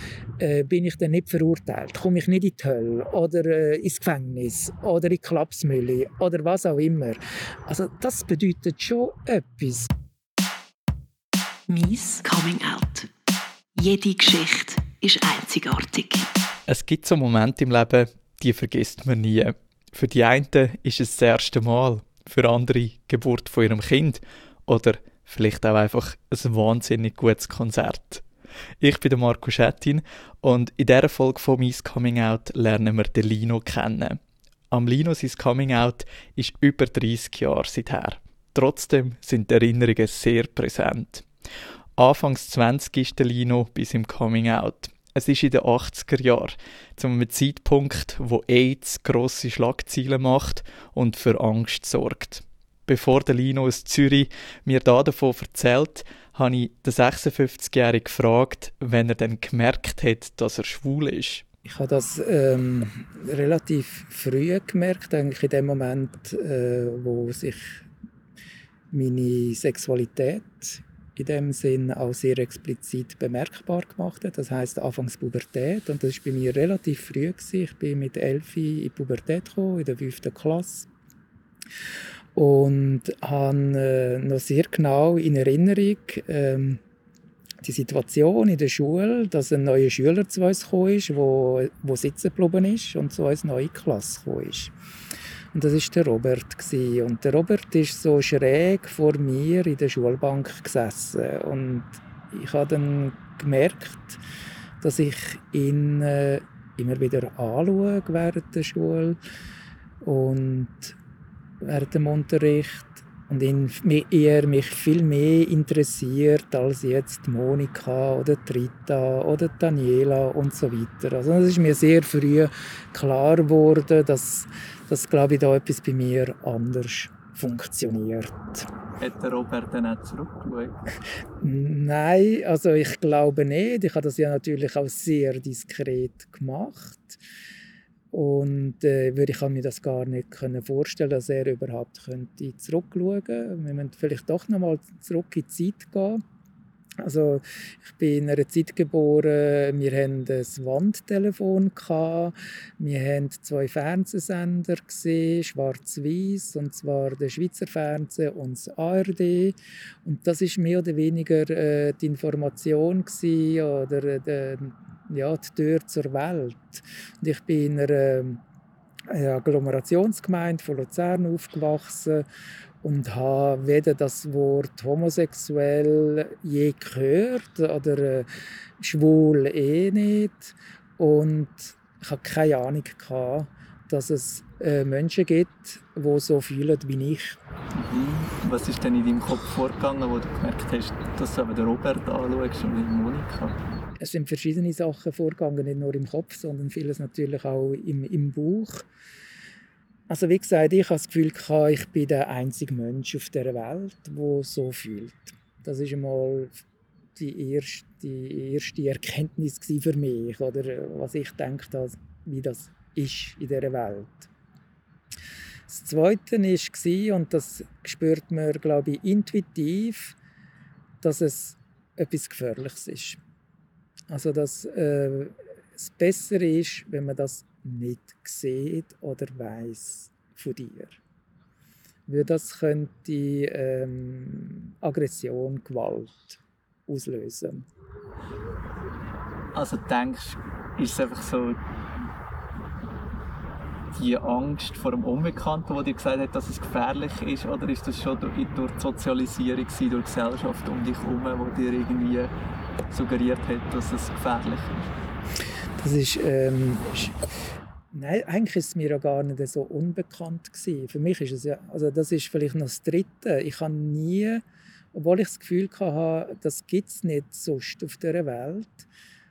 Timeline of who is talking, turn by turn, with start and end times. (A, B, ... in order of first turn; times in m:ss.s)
0:00.4-0:09.9 A
0:11.7-0:13.1 B
0:13.8-0:16.3 B
0:16.7-0:28.2 C
0:28.8-0:41.3 C
0:42.0-1:01.4 C
1:01.6-1:07.9 A
1:08.9-1:20.9 A
1:22.4-1:26.8 A
1:27.6-1:34.7 A
1:35.5-1:44.2 A
1:44.8-1:49.2 A
1:50.0-1:51.0 A
1:51.6-2:08.7 A
2:09.0-2:10.8 C
2:11.4-2:17.2 A
2:18.1-2:26.2 A
2:27.0-2:48.4 A
2:49.1-2:52.2 A
2:52.8-3:07.4 A
3:07.8-3:13.6 C
3:14.0-3:18.9 A
3:20.1-3:26.6 A
3:27.2-3:34.3 A
3:35.7-3:40.2 A
3:41.0-3:43.2 A
3:44.1-3:51.0 A
3:52.1-3:57.7 A
3:59.5-4:01.6 C
4:03.9-4:12.3 C
4:12.9-4:14.9 C
4:15.8-4:17.3 A
4:17.9-4:24.4 A
4:24.9-4:28.9 A